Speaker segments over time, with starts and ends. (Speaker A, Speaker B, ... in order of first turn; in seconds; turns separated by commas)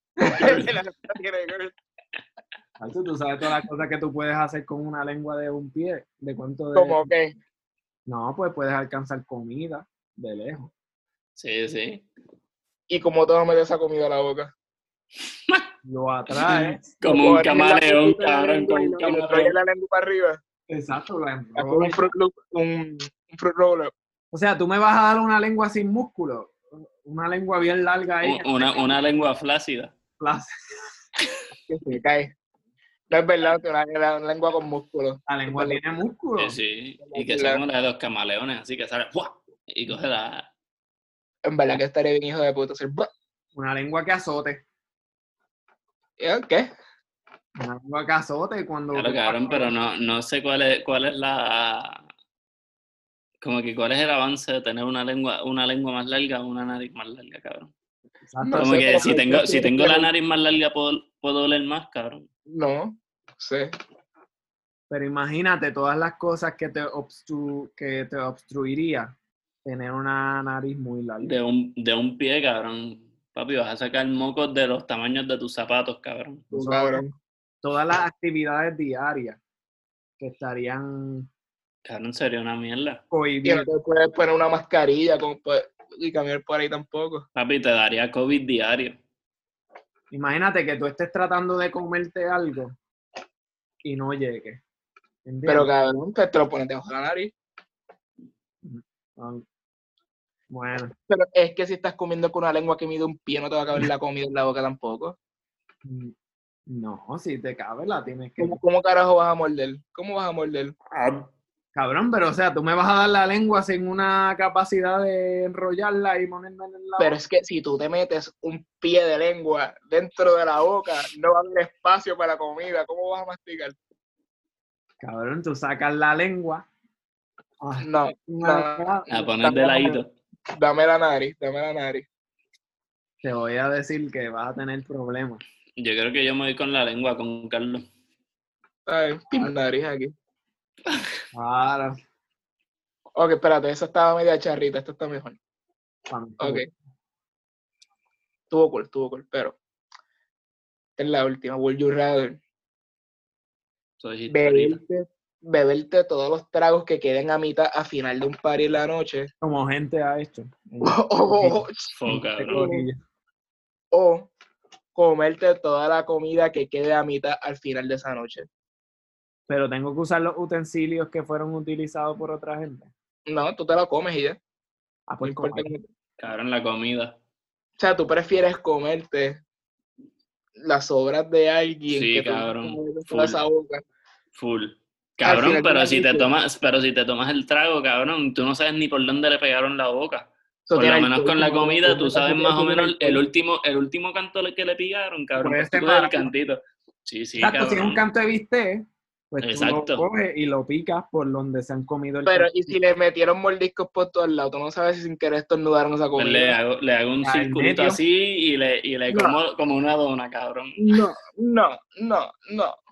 Speaker A: 0.3-1.7, Speaker B: 0.4-0.7, Speaker C: 2.8-7.1, Speaker A: 6.7-7.3, Speaker C: 8.1-10.7, Speaker B: 11.3-12.0, Speaker A: 12.9-14.5, Speaker B: 15.3-15.7, Speaker C: 15.8-16.9, Speaker B: 16.3-19.5, Speaker A: 17.0-20.4, Speaker C: 20.7-22.1, Speaker A: 21.6-23.9, Speaker C: 24.3-29.0, Speaker B: 28.2-29.9, Speaker C: 30.2-30.5, Speaker A: 31.7-32.3, Speaker A: 33.1-35.8, Speaker C: 35.3-36.6, Speaker B: 36.4-40.5, Speaker A: 37.0-37.6, Speaker A: 41.5-43.1, Speaker C: 43.5-44.6, Speaker A: 46.2-46.7, Speaker C: 47.6-49.7, Speaker B: 48.9-52.0, Speaker B: 53.4-57.7, Speaker C: 58.3-59.2, Speaker A: 58.4-60.1, Speaker B: 58.6-62.3, Speaker A: 62.5-63.7, Speaker C: 64.9-71.3, Speaker B: 71.2-76.5, Speaker A: 76.5-77.1, Speaker C: 76.5-77.0, Speaker C: 77.6-79.4, Speaker C: 80.2-81.3, Speaker B: 81.8-83.0, Speaker C: 83.1-83.7, Speaker A: 83.4-87.2, Speaker B: 87.3-89.0, Speaker C: 90.1-92.8, Speaker C: 93.8-94.6, Speaker C: 95.2-95.7, Speaker A: 95.5-97.3, Speaker C: 98.6-99.4, Speaker C: 100.5-100.9, Speaker A: 101.1-105.2, Speaker C: 105.8-106.1, Speaker C: 106.7-108.6, Speaker A: 108.4-110.7, Speaker B: 110.9-111.3, Speaker C: 111.7-117.1, Speaker A: 117.0-123.8, Speaker C: 125.0-126.7, Speaker C: 127.6-129.8, Speaker A: 127.8-129.9, Speaker B: 129.1-130.1, Speaker A: 130.5-132.1, Speaker C: 133.2-135.4, Speaker B: 135.8-137.8, Speaker A: 138.9-140.1, Speaker C: 141.3-142.0, Speaker A: 143.2-145.4, Speaker C: 146.1-146.6, Speaker A: 146.4-146.7, Speaker A: 148.5-149.6, Speaker A: 151.0-152.4, Speaker B: 154.0-154.8, Speaker A: 154.3-159.3, Speaker C: 159.4-163.0, Speaker A: 160.8-161.9, Speaker B: 161.9-162.7, Speaker A: 162.5-162.8, Speaker A: 163.9-164.3, Speaker A: 164.9-168.5, Speaker C: 169.5-172.9, Speaker A: 173.3-174.4, Speaker C: 175.1-175.7, Speaker A: 175.2-175.8, Speaker B: 176.2-177.2, Speaker A: 177.8-179.4, Speaker A: 180.6-183.8, Speaker B: 181.9-183.4, Speaker B: 184.3-198.0, Speaker A: 185.2-186.3, Speaker A: 190.7-193.2, Speaker C: 195.4-196.3, Speaker C: 197.4-202.5, Speaker B: 199.4-200.1, Speaker A: 202.2-206.6, Speaker B: 206.2-210.9, Speaker C: 207.2-208.0, Speaker A: 209.1-209.4, Speaker A: 210.8-212.8